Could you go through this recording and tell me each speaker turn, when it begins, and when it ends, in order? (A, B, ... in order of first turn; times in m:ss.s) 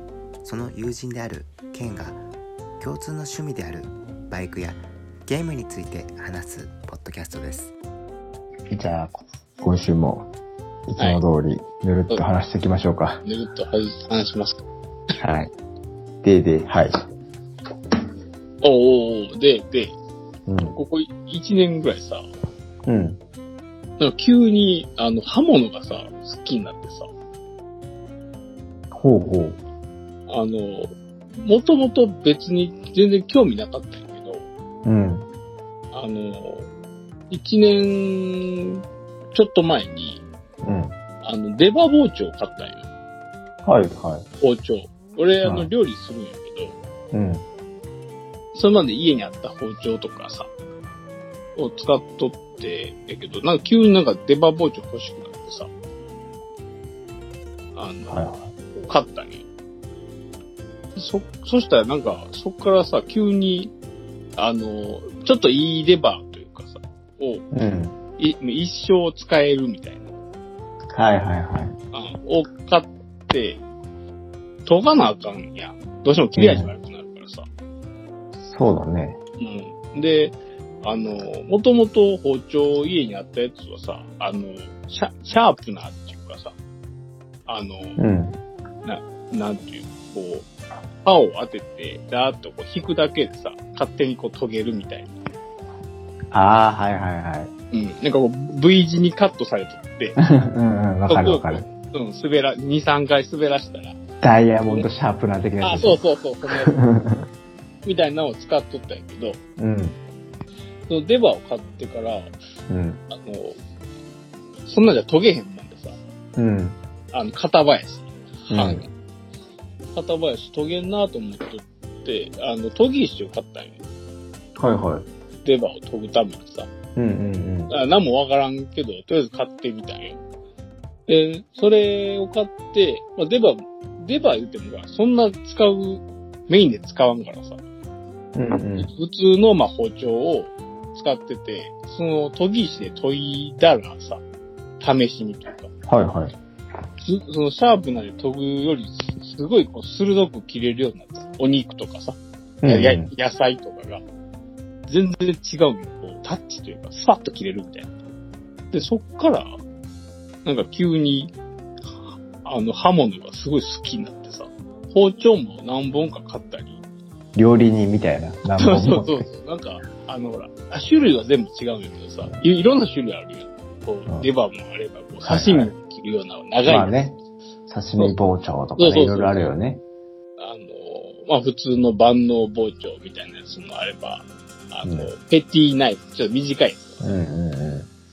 0:00.4-0:02.2 A
0:02.8-0:07.7 A
0:08.7-0:10.3 B
0:10.9-0:13.2 B
0:13.2-0:14.6 C
0:15.2-0:15.5 B
0:16.2-0:17.0 B
0:18.6-0:20.0 C
0:20.5-0:20.8 B
0:20.8-0:22.2 C
0:22.9-0:23.2 B
0:24.0-0:27.1 C
0:28.9-0:29.6 B
0:30.3-0:34.5 C
0:34.8-0:35.3 B
0:35.9-0:36.7 C
0:37.3-0:38.8 C
0:39.3-0:40.2 C
0:40.6-0:41.0 B
0:41.2-0:42.9 C
0:43.6-0:44.3 B
0:44.4-0:46.8 C
0:45.4-0:45.7 B
0:47.1-0:47.4 B
0:48.5-0:50.5 C
0:51.6-0:55.7 C
0:57.8-0:58.3 C
0:58.1-0:58.5 B
0:58.8-0:59.5 C
1:01.0-1:03.7 C
1:04.4-1:07.4 C
1:07.5-1:08.0 B
1:08.2-1:10.1 C
1:10.9-1:11.8 B
1:11.9-1:13.6 C
1:14.6-1:17.5 C
1:16.4-1:16.7 B
1:18.4-1:19.2 B
1:19.4-1:26.5 C
1:27.5-1:28.0 C
1:28.0-1:28.4 B
1:28.8-1:30.5 C
1:31.0-1:35.1 C
1:36.3-1:37.5 B
1:37.7-1:40.2 C
1:40.2-1:41.7 B
1:41.1-1:44.0 C
1:44.2-1:47.3 B
1:45.6-1:46.7 C
1:47.8-1:49.4 C
1:49.6-1:50.0 B
1:50.9-1:52.3 C
1:52.7-1:53.0 B
1:53.1-1:53.6 C
1:54.7-1:56.0 C
1:56.4-1:56.8 B
1:57.1-1:58.9 C
1:58.5-1:58.9 B
2:00.0-2:03.8 C
2:04.6-2:05.1 B
2:05.4-2:06.7 C
2:07.0-2:07.7 B
2:07.7-2:10.2 C
2:11.1-2:17.6 C
2:18.4-2:18.9 B
2:18.8-2:24.2 C
2:24.8-2:25.7 C
2:25.9-2:26.3 B
2:27.0-2:34.0 C
2:32.6-2:33.1 B
2:34.9-2:37.9 C
2:38.7-2:39.6 C
2:40.4-2:41.3 C
2:42.4-2:46.8 C
2:47.4-2:49.2 B
2:48.6-2:56.9 C
2:55.2-2:55.8 B
2:56.7-2:59.8 B
2:58.8-2:59.5 C
3:00.4-3:07.0 C
3:04.8-3:05.1 B
3:07.0-3:07.9 B